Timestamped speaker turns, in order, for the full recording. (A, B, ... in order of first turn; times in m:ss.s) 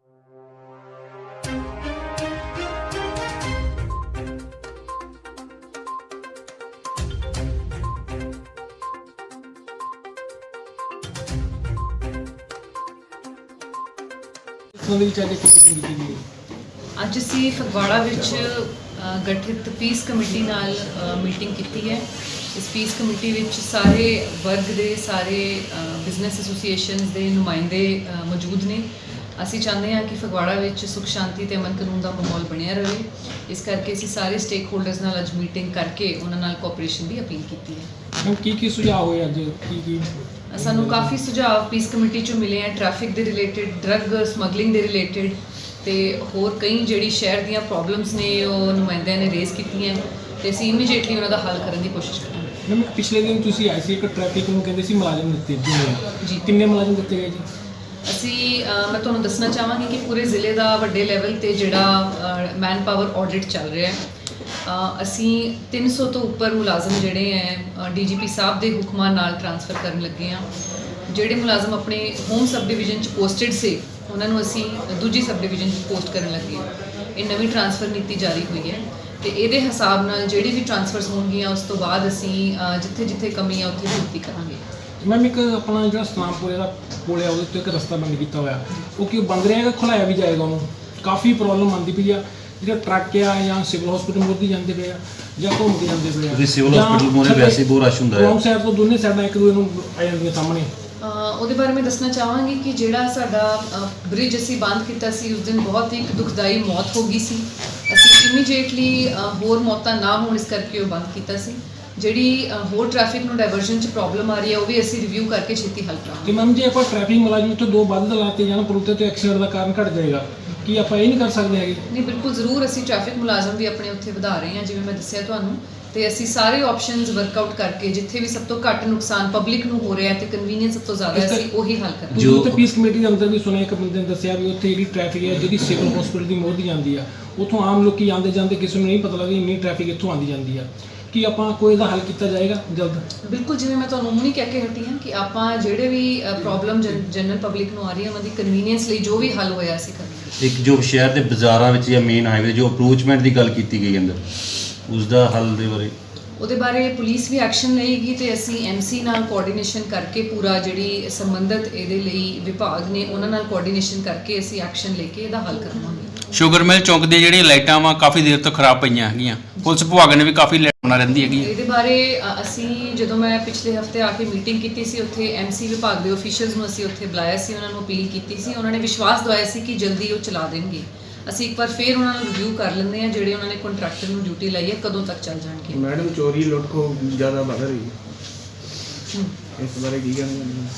0:14.7-0:16.2 A
0:17.0-0:37.9 B
0:38.2-0:41.1 A
0:40.5-0:52.5 B
0:52.6-0:57.5 A
0:58.0-1:04.0 B
1:04.6-1:10.5 B
1:11.1-1:24.6 B
1:25.0-1:40.7 A
1:36.3-1:38.4 C
1:41.0-1:56.4 B
1:56.2-2:01.8 A
2:01.9-2:12.5 B
2:11.1-2:11.4 A
2:12.1-2:23.0 A
2:12.2-2:12.5 C
2:23.2-2:30.4 B
2:30.4-2:34.2 C
2:34.9-2:35.9 C
2:36.4-2:46.1 B
2:46.3-2:51.5 D
2:49.6-2:49.8 B
2:51.4-3:05.8 B
3:06.2-3:07.9 E
3:09.6-3:10.5 E